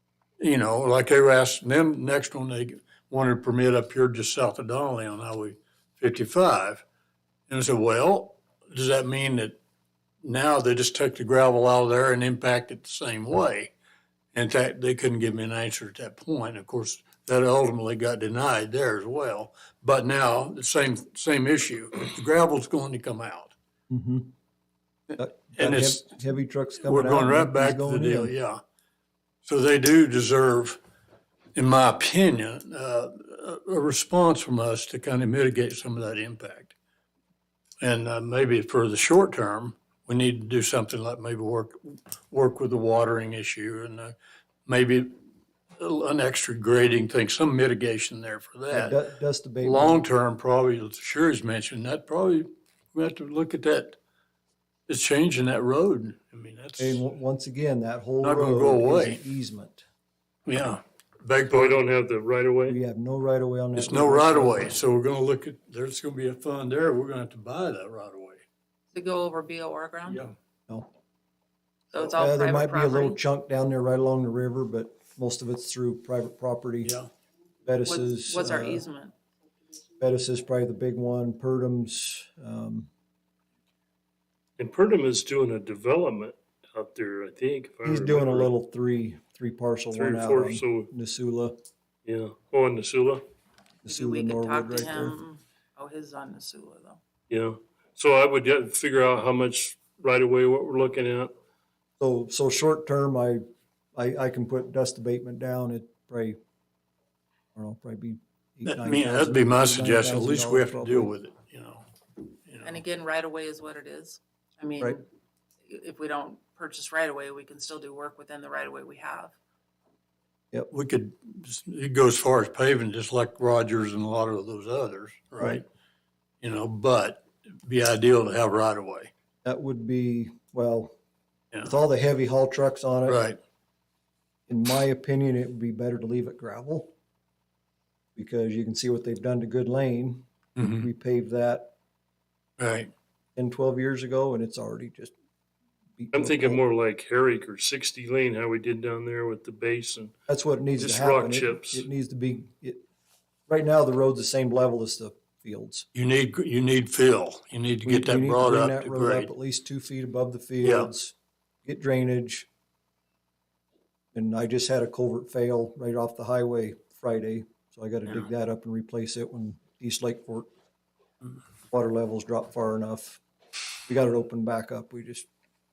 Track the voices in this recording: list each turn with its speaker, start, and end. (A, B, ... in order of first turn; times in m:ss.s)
0:00.4-0:06.8 A
0:07.5-0:09.6 A
0:10.2-0:13.7 A
0:14.3-0:23.5 A
0:23.9-0:24.3 B
0:25.1-0:26.0 A
0:25.2-0:28.3 B
0:26.8-0:28.6 A
0:29.4-0:30.8 A
0:31.5-0:36.7 A
0:37.8-0:44.1 A
0:44.6-0:45.1 A
0:45.8-0:49.0 A
0:48.7-0:50.0 B
0:49.6-0:54.0 A
0:54.9-0:57.0 A
0:56.8-0:59.8 B
0:58.2-0:59.2 A
1:00.4-1:01.8 A
1:01.5-1:02.8 C
1:02.7-1:04.7 B
1:03.7-1:08.4 A
1:08.9-1:10.2 D
1:10.1-1:10.3 A
1:11.9-1:13.2 D
1:12.0-1:16.9 B
1:16.8-1:17.1 A
1:17.6-1:18.8 B
1:17.8-1:19.1 D
1:20.0-1:22.9 B
1:24.6-1:28.5 C
1:27.8-1:31.6 B
1:29.9-1:30.9 C
1:32.0-1:33.2 C
1:33.8-1:35.2 B
1:33.8-1:37.0 D
1:37.3-1:41.3 C
1:42.0-1:43.4 B
1:43.9-1:46.4 B
1:47.5-1:51.1 B
1:48.6-1:51.8 A
1:52.5-1:52.8 A
1:52.6-1:55.0 D
1:55.6-1:59.3 D
2:00.7-2:05.6 A
2:06.4-2:09.1 A
2:09.4-2:10.9 B
2:11.6-2:13.2 B
2:13.0-2:13.4 A
2:14.5-2:16.9 B
2:18.2-2:21.7 B
2:20.6-2:20.9 A
2:22.6-2:22.9 A
2:23.4-2:25.1 B
2:26.0-2:26.6 B
2:26.1-2:30.1 C
2:30.3-2:32.8 B
2:30.8-2:31.8 C
2:33.5-2:35.9 B
2:35.9-2:39.3 A
2:37.8-2:42.5 B
2:40.6-2:40.9 A
2:44.1-2:50.5 B
2:51.7-2:53.2 B
2:53.9-2:55.3 B